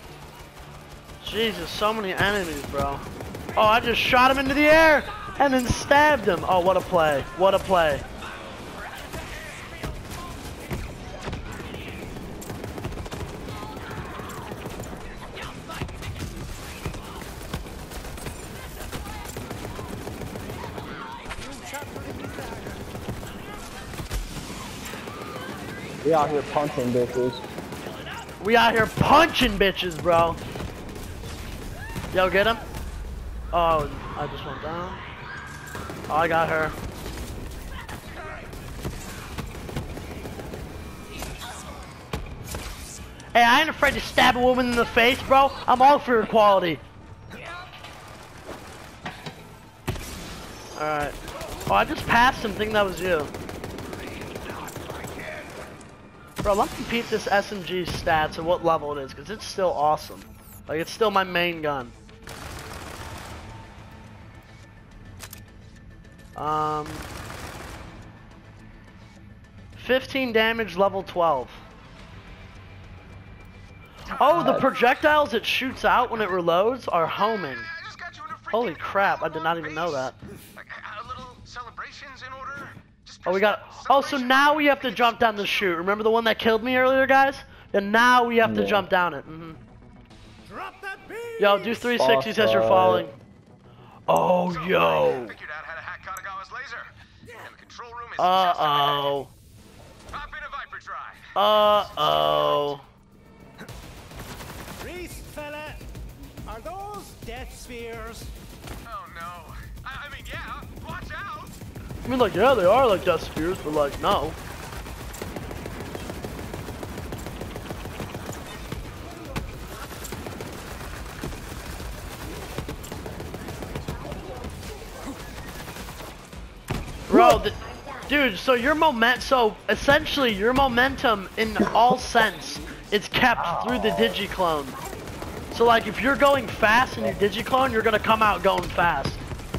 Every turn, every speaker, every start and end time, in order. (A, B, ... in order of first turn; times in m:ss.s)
0:01.2-0:08.0 A
0:21.4-0:22.8 B
0:26.0-0:27.4 C
0:28.4-0:30.4 A
0:32.1-0:32.6 A
0:33.5-0:35.0 A
0:36.1-0:36.7 A
0:43.3-0:46.8 A
0:50.8-0:51.1 A
0:51.7-0:53.3 A
0:54.6-0:55.4 B
0:56.4-1:01.9 A
1:06.4-1:07.1 A
1:09.8-1:11.6 A
1:14.2-1:17.7 A
1:14.2-1:14.6 C
1:17.1-1:25.7 D
1:18.5-1:20.1 A
1:23.2-1:29.6 A
1:28.4-1:28.9 C
1:30.4-1:31.8 B
1:31.4-1:33.1 A
1:32.0-1:33.1 C
1:34.1-1:35.3 A
1:34.4-1:36.9 D
1:37.4-1:39.2 D
1:38.2-1:39.3 A
1:40.1-1:42.8 D
1:41.4-1:42.8 A
1:44.8-1:45.8 B
1:46.4-1:48.3 B
1:48.8-1:51.6 D
1:52.0-1:54.4 A
2:07.1-2:14.8 A
2:07.1-2:07.4 C
2:11.7-2:12.0 C
2:13.3-2:14.2 C
2:15.5-2:19.2 A